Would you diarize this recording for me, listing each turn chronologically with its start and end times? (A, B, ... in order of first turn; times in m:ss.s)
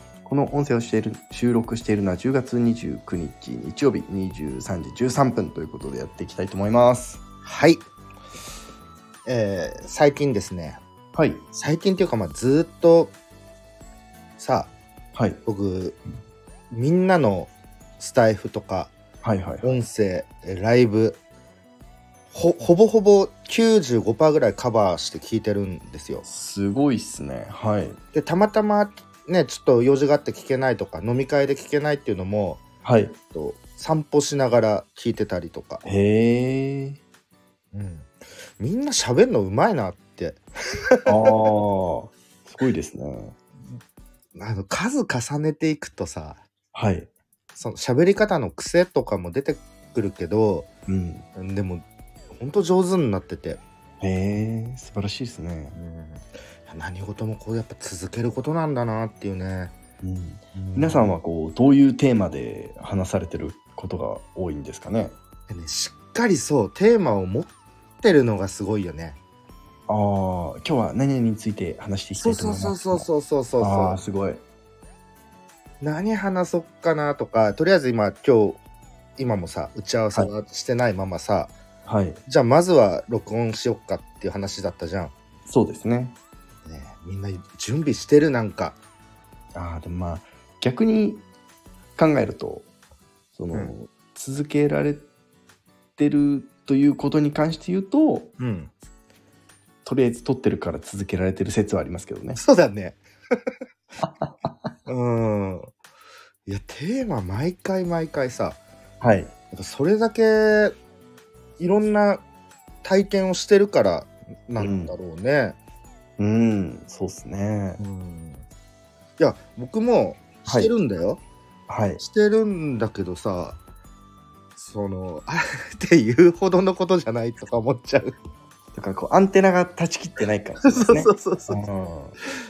0:00.2-0:07.2 A
0:07.4-0:07.9 B
0:09.3-0:10.8 B
0:11.1-0:11.4 A
0:11.5-0:13.1 B
0:14.4-0:14.7 B
0:15.2-0:15.4 A
0:15.4-0:16.0 B
0:16.7-0:18.9 B
0:19.2-0:19.8 A
0:19.6-0:21.2 B
0:22.3-0:26.2 B
0:26.2-0:28.0 A
0:28.1-0:32.6 B
0:32.8-0:33.2 A
0:33.3-0:35.8 B
0:35.8-0:37.0 A
0:37.7-0:41.4 B
0:41.1-0:43.4 A
0:44.4-0:46.4 B
0:46.7-0:47.1 A
0:47.6-0:50.7 B
0:50.9-0:51.2 A
0:51.4-0:53.6 B
0:54.0-0:55.8 A
0:55.8-0:59.8 B
1:00.0-1:05.2 A
1:00.6-1:01.2 B
1:05.5-1:09.2 B
1:09.9-1:13.1 A
1:12.2-1:14.0 B
1:13.6-1:14.4 A
1:15.8-1:18.6 B
1:19.2-1:21.6 B
1:21.9-1:22.2 A
1:22.3-1:25.1 B
1:25.5-1:26.2 A
1:26.6-1:28.8 B
1:29.5-1:31.2 A
1:32.0-1:32.7 A
1:33.4-1:35.1 A
1:36.0-1:38.3 A
1:38.4-1:38.7 B
1:39.8-1:42.4 A
1:42.4-1:43.0 B
1:44.0-1:44.5 A
1:44.9-1:45.7 B
1:46.5-1:48.6 B
1:49.0-1:49.3 A
1:49.5-1:50.7 B
1:51.6-1:52.2 B
1:52.8-1:55.6 B
1:54.6-1:55.0 A
1:56.2-1:57.8 A
1:57.8-1:58.4 B
1:59.2-2:01.2 B
2:00.5-2:00.7 A
2:01.7-2:02.0 A
2:02.0-2:03.6 B
2:04.6-2:08.2 B
2:08.8-2:12.2 A
2:10.6-2:11.7 B